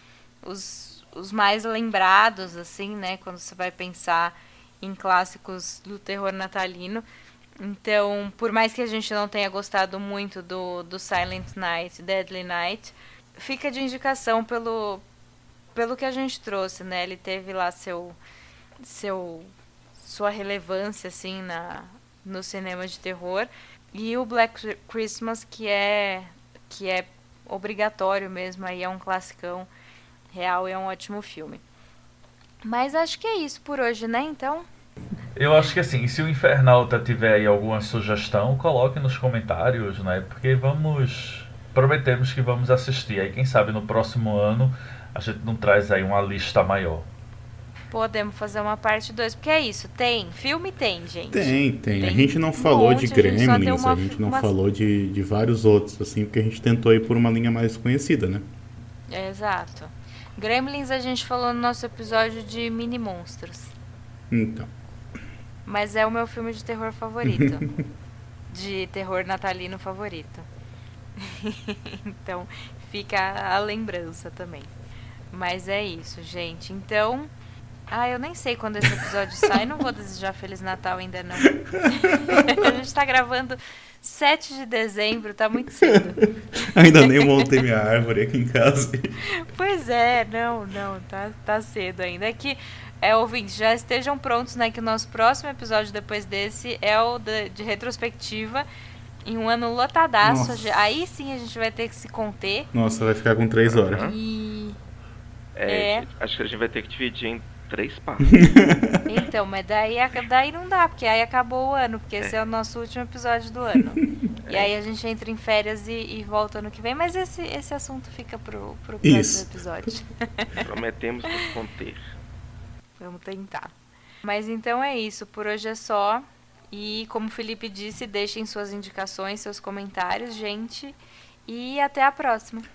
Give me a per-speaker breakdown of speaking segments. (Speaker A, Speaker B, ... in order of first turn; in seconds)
Speaker A: 0.4-7.1, 7.6-15.0, 15.7-18.2, 18.8-29.7, 30.3-31.6, 32.6-34.7, 47.9-54.5, 59.1-63.7, 65.7-67.7, 68.5-70.5, 71.2-74.7, 75.3-77.3, 77.9-86.2, 87.0-87.5, 89.3-98.7, 99.2-102.7, 103.9-104.8, 105.7-106.1, 109.1-120.6, 123.0-132.7
Speaker B: 35.4-47.1
Speaker C: 51.3-58.5, 64.3-64.7, 82.3-82.7, 86.6-89.1, 100.2-100.6, 102.7-104.0, 108.4-109.0, 119.0-119.5
Speaker D: 103.7-104.2, 105.6-108.4, 114.5-114.7, 120.6-122.1